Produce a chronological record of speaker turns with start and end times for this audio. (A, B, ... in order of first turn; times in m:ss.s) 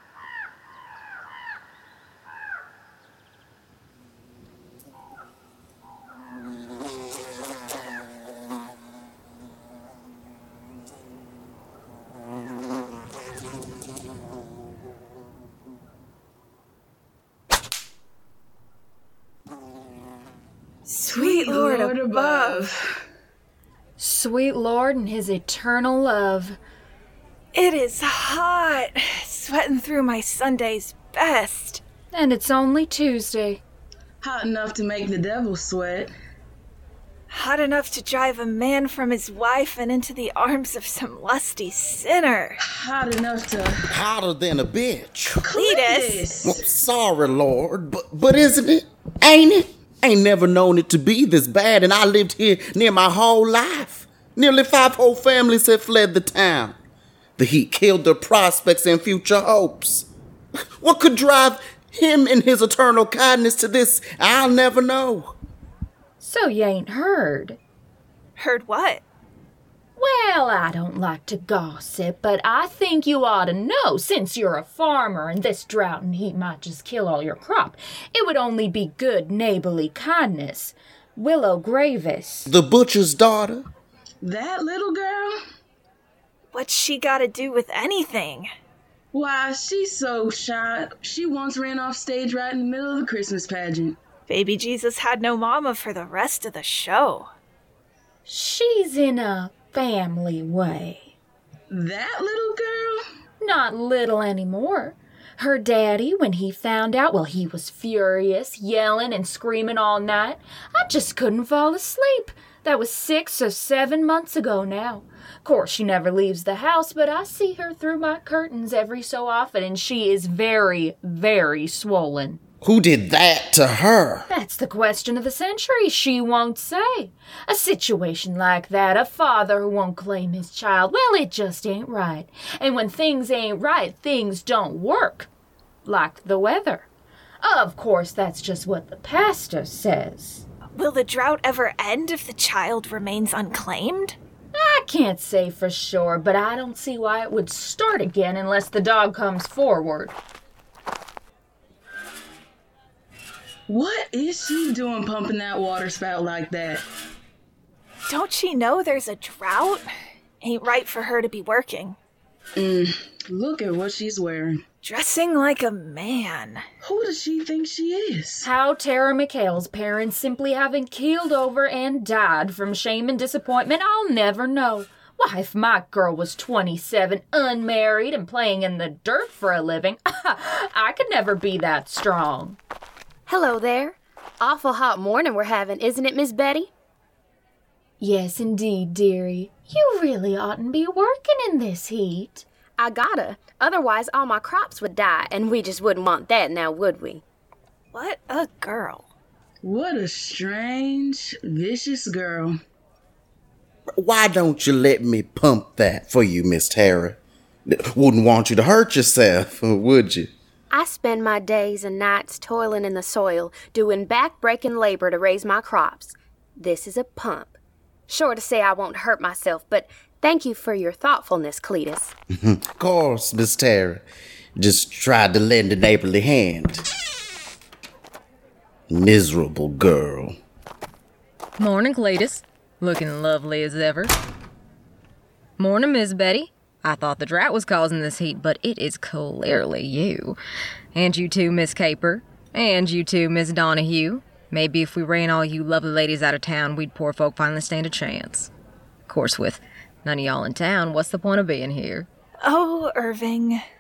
0:20.9-0:22.6 A
0:21.1-0:22.9 B
0:24.0-0:26.6 C
0:27.6-0:31.8 A
0:32.1-0:33.6 C
0:34.2-0:36.1 B
0:37.3-0:42.6 A
0:42.6-0:44.0 B
0:43.9-0:45.4 D
0:45.4-0:46.6 B
0:45.5-0:46.5 A
0:46.4-0:56.8 D
0:57.4-1:00.1 D
1:00.8-1:05.4 D
1:06.2-1:07.6 C
1:08.4-1:09.0 A
1:10.0-1:22.5 C
1:22.5-1:23.6 D
1:24.2-1:25.4 B
1:26.5-1:28.5 A
1:29.1-1:34.0 B
1:34.3-1:37.3 A
1:38.3-1:41.2 C
1:41.7-1:43.0 B
1:43.4-2:02.4 C
2:02.6-2:04.3 D
2:04.3-2:15.3 C
2:15.8-2:16.9 C
2:17.4-2:20.5 C
2:20.7-2:24.2 A
2:24.5-2:30.2 C
2:33.7-2:36.8 B
2:38.1-2:39.9 A
2:40.4-2:42.0 A
2:42.6-2:44.6 B
2:44.8-2:46.6 A
2:46.8-2:48.5 B
2:48.4-3:02.6 C
3:03.3-3:06.7 E
3:08.0-3:12.5 C
3:12.8-3:17.2 E
3:17.9-3:19.1 A
3:19.6-3:22.6 B
3:24.0-3:30.3 D
3:30.7-3:37.6 E
3:38.1-3:42.1 E
3:42.4-3:44.0 D
3:44.6-3:46.8 D
3:48.9-3:50.4 D
3:51.6-3:54.1 F
3:55.6-4:00.4 F
4:00.9-4:08.5 F
4:09.1-4:12.1 F
4:12.4-4:13.6 A